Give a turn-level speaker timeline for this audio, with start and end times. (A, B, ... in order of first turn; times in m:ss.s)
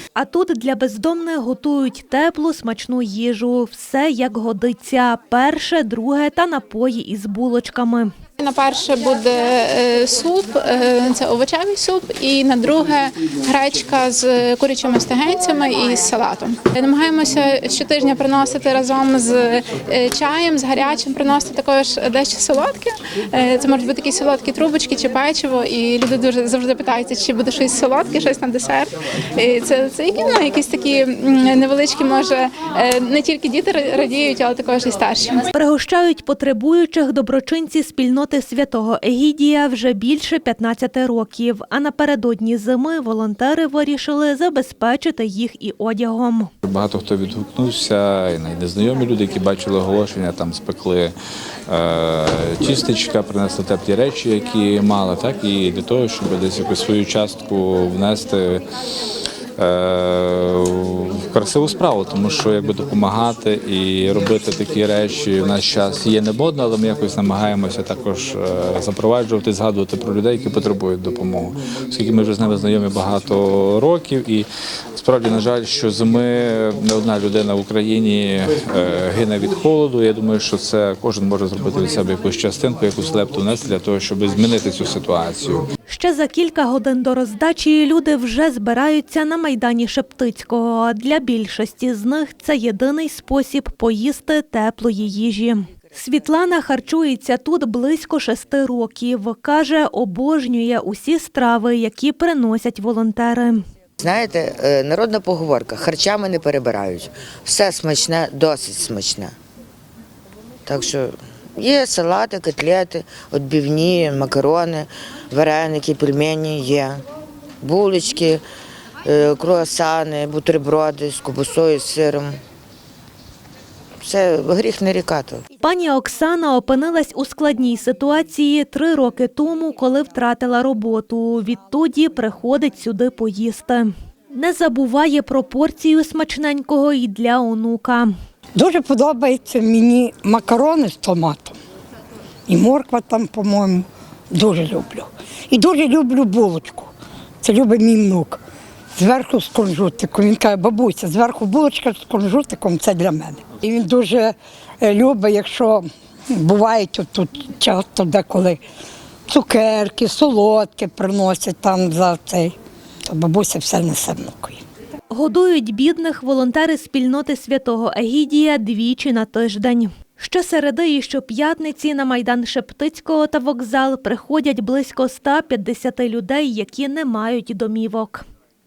0:00.2-0:08.1 A
0:08.4-0:35.5 B
0:35.5-0:46.5 A
0:46.6-0:51.1 C
0:51.7-0:58.6 C
0:59.6-1:25.6 C
1:25.9-1:43.6 A
1:44.0-1:49.3 D
1:50.6-1:57.0 D
1:57.6-1:58.4 D
1:59.0-2:02.3 D
2:04.0-2:05.4 D
2:05.6-2:18.1 A
2:18.6-2:21.6 E
2:22.5-2:28.4 E
2:28.9-2:38.6 E
2:39.3-2:44.6 E
2:45.1-2:58.2 A